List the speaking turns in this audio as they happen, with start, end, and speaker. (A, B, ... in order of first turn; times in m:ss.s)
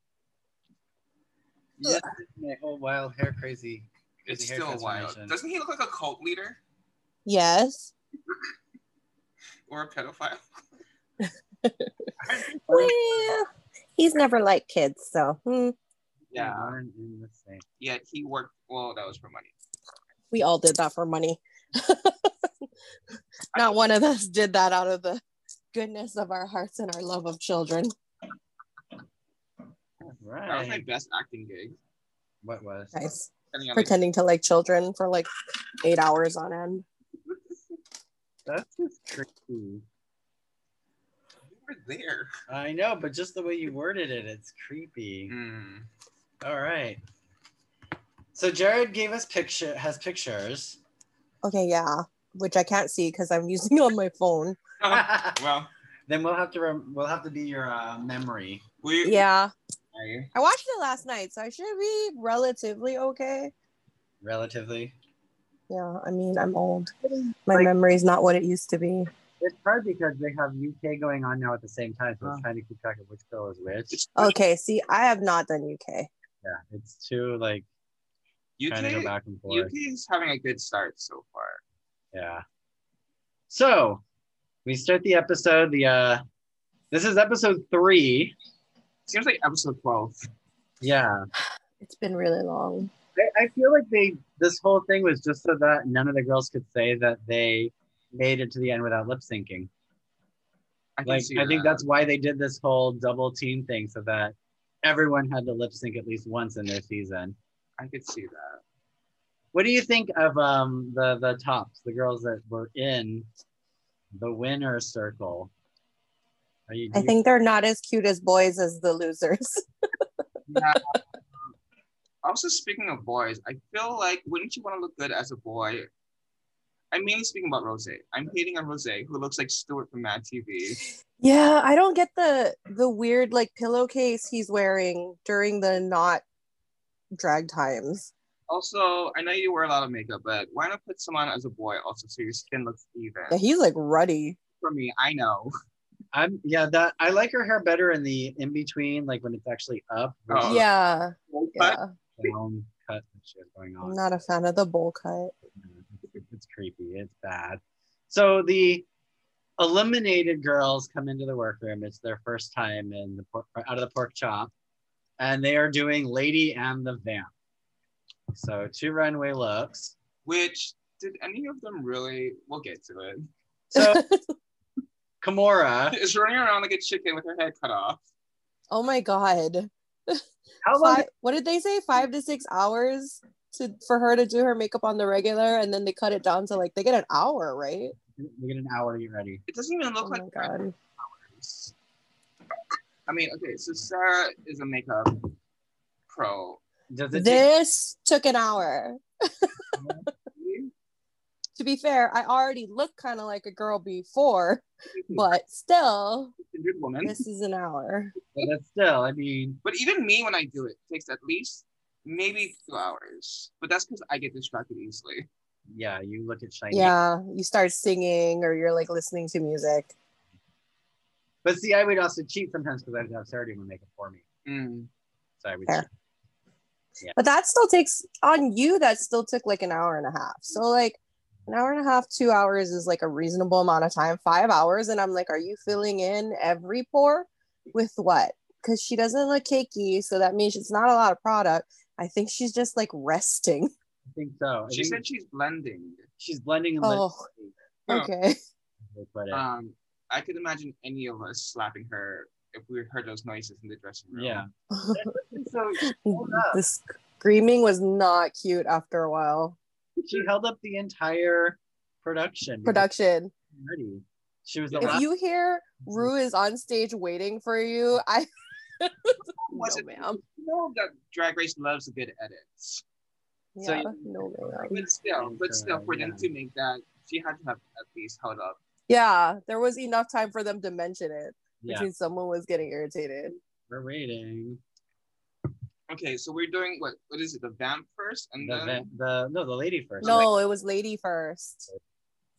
0:01.8-0:05.3 A
0:04.2-0:06.6 B
0:07.2-0:07.9 C
0:09.7-0:10.4 B
0:11.6-0:11.9 C
0:12.2-0:12.9 B
0:12.7-0:15.7 C
0:16.3-0:16.7 B
0:16.3-0:17.6 A
0:17.8-0:19.5 B
0:20.3-0:22.5 C
0:23.5-0:25.2 C
0:23.5-0:23.8 B
0:25.7-0:27.9 C
0:30.0-0:30.8 A
0:30.4-0:31.8 B
0:32.4-0:32.9 A
0:32.9-0:35.3 C
0:33.5-0:33.9 B
0:35.8-0:36.8 C
0:38.4-0:39.8 A
0:41.5-0:42.3 B
0:42.5-0:45.3 A
0:45.3-0:45.9 B
0:46.4-0:47.0 A
0:48.3-0:50.8 A
0:51.4-0:54.6 C
0:54.8-0:55.7 B
0:54.9-0:55.4 A
0:56.1-0:58.6 A
0:58.8-0:59.2 B
0:59.0-0:59.5 C
0:59.9-1:00.3 B
1:00.3-1:03.5 C
1:04.2-1:04.9 A
1:05.7-1:09.1 C
1:09.4-1:14.0 A
1:12.2-1:12.5 B
1:13.9-1:14.4 B
1:14.2-1:16.1 C
1:16.4-1:17.6 A
1:18.6-1:21.6 B
1:18.7-1:19.7 A
1:22.1-1:22.4 A
1:23.5-1:24.0 A
1:24.6-1:26.2 A
1:26.9-1:28.4 A
1:29.1-1:30.3 B
1:30.8-1:31.2 A
1:31.8-1:32.9 C
1:33.2-1:39.7 A
1:41.0-1:41.8 B
1:41.0-1:47.4 A
1:47.8-1:48.6 B
1:49.5-1:53.3 A
1:54.1-1:55.5 A
1:56.7-1:57.2 A
1:56.9-1:59.6 C
2:00.5-2:01.5 B
2:00.6-2:01.0 C
2:02.2-2:05.9 B
2:06.9-2:10.8 B
2:11.0-2:16.2 C
2:17.2-2:18.1 C
2:18.5-2:23.4 B
2:23.3-2:24.4 C
2:24.6-2:25.5 B
2:26.1-2:30.6 A
2:30.3-2:30.6 B
2:30.4-2:31.9 C
2:31.3-2:32.3 B
2:32.2-2:34.0 A
2:33.8-2:35.3 C
2:35.6-2:38.8 A
2:39.6-2:44.5 A
2:45.2-2:47.3 A
2:48.3-2:49.9 A
2:50.2-2:53.2 B
2:53.7-2:54.0 A
2:53.7-2:54.3 C
2:55.2-2:56.0 A
2:55.9-2:58.0 B
2:58.7-3:00.2 C
3:00.6-3:01.0 A
3:00.8-3:07.9 C
3:08.2-3:09.4 A
3:09.5-3:11.7 B
3:10.0-3:10.7 C
3:13.1-3:15.3 B
3:16.1-3:16.6 B
3:16.9-3:17.4 A
3:17.1-3:19.5 C
3:19.8-3:20.7 B
3:21.6-3:26.3 C
3:25.0-3:25.3 B
3:26.4-3:27.2 B
3:27.0-3:28.1 C
3:28.3-3:29.6 A
3:29.6-3:35.3 B
3:35.7-3:36.9 A
3:36.7-3:39.9 C
3:41.4-3:44.2 A
3:44.4-3:44.9 B
3:45.4-3:45.9 A
3:47.2-4:03.7 C
4:04.1-4:05.0 A
4:04.7-4:06.1 B
4:06.2-4:07.5 A
4:06.8-4:07.3 C
4:07.9-4:08.4 C
4:08.8-4:09.4 A
4:09.3-4:14.4 B
4:14.1-4:16.6 A
4:14.7-4:15.2 C
4:15.8-4:19.6 C
4:20.0-4:22.9 A
4:22.6-4:23.3 C
4:23.5-4:25.0 A
4:24.7-4:25.0 B
4:24.8-4:30.2 C
4:29.3-4:32.8 B
4:33.5-4:34.9 C
4:33.6-4:33.9 A
4:33.7-4:34.0 B
4:34.7-4:38.6 B
4:35.1-4:36.3 A
4:38.9-4:43.4 C
4:41.6-4:41.9 A
4:43.7-4:44.6 A
4:45.9-4:48.8 B
4:48.4-4:50.3 A
4:50.0-4:50.3 B
4:50.0-4:51.7 C